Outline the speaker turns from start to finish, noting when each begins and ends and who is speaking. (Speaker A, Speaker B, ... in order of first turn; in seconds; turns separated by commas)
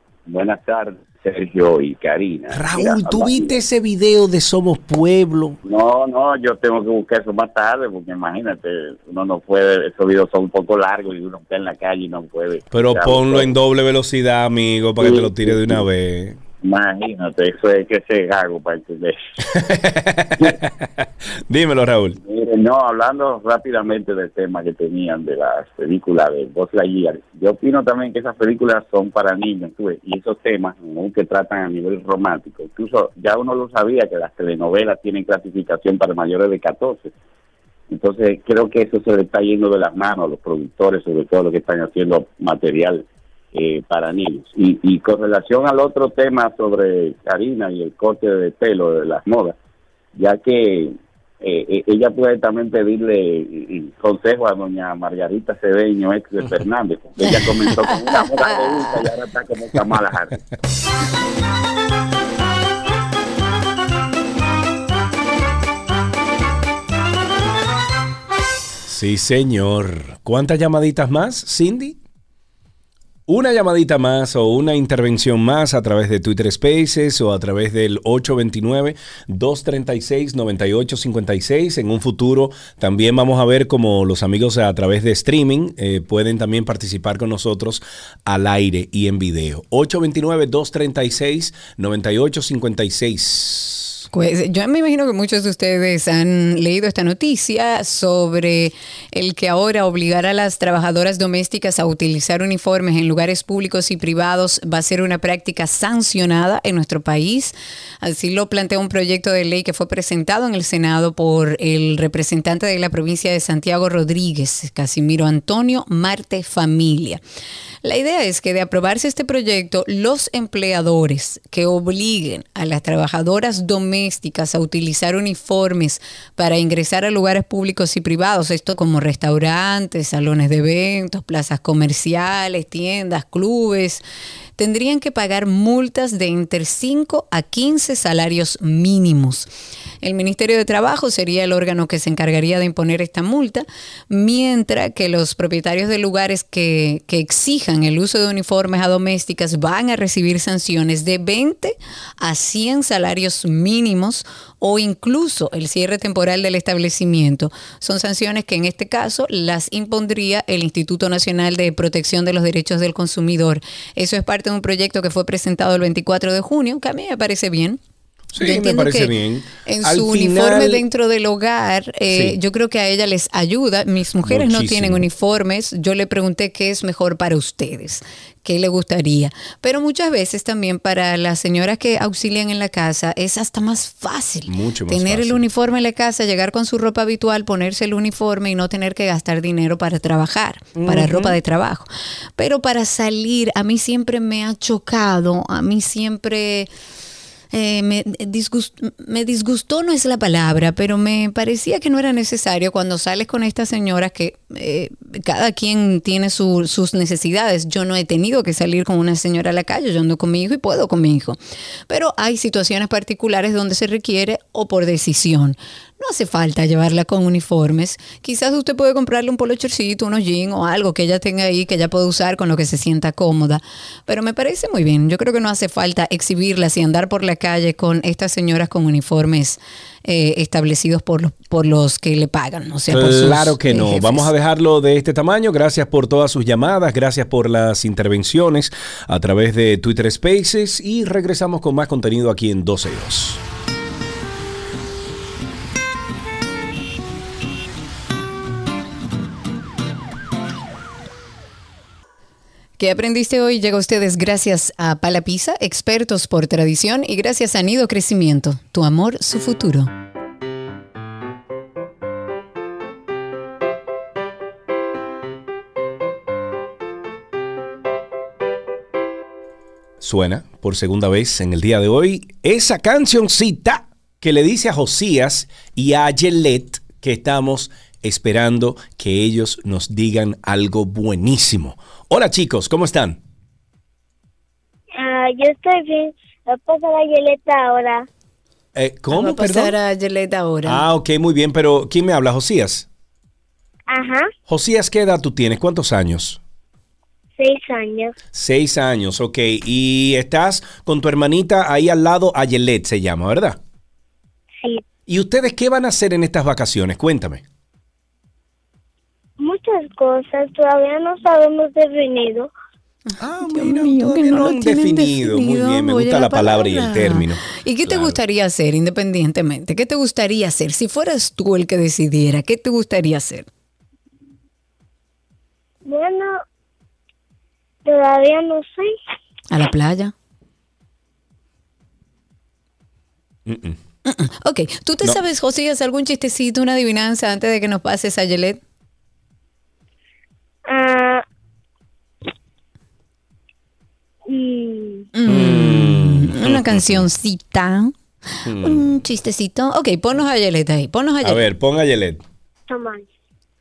Speaker A: 0.3-3.6, Speaker B: 2.5-5.6, Speaker A: 5.6-13.5, Speaker B: 12.7-16.4, Speaker A: 15.0-15.8, Speaker A: 16.6-19.2, Speaker B: 19.5-22.2, Speaker A: 22.2-37.1, Speaker A: 37.9-49.5, Speaker A: 50.1-60.4, Speaker C: 57.3-58.9, Speaker B: 68.8-72.0, Speaker B: 73.3-94.0, Speaker C: 94.1-117.2, Speaker C: 117.8-134.0, Speaker C: 134.6-139.5, Speaker C: 140.0-167.8, Speaker B: 168.3-170.8, Speaker C: 168.4-169.1, Speaker C: 169.6-196.7, Speaker B: 172.1-172.4, Speaker B: 174.2-175.1, Speaker B: 184.5-185.4, Speaker B: 190.7-191.4, Speaker C: 197.5-211.4, Speaker C: 211.9-234.3, Speaker B: 232.9-243.4, Speaker C: 252.8-259.9, Speaker B: 270.0-283.2, Speaker D: 285.0-288.1, Speaker B: 288.7-289.7, Speaker C: 289.1-290.9, Speaker B: 290.6-292.9, Speaker D: 293.9-294.3, Speaker B: 294.5-296.4, Speaker D: 297.4-298.1, Speaker B: 298.3-303.6, Speaker B: 305.1-307.4, Speaker D: 309.4-312.5, Speaker B: 313.2-318.2, Speaker C: 313.4-323.5, Speaker D: 325.9-326.3, Speaker D: 327.9-328.9, Speaker C: 329.5-330.1, Speaker B: 333.4-333.8, Speaker C: 334.1-338.6, Speaker D: 340.7-341.2, Speaker D: 344.3-345.0, Speaker C: 345.1-347.9, Speaker B: 345.3-347.1, Speaker B: 348.4-348.9, Speaker C: 348.6-351.4, Speaker B: 351.2-352.2, Speaker D: 352.7-353.1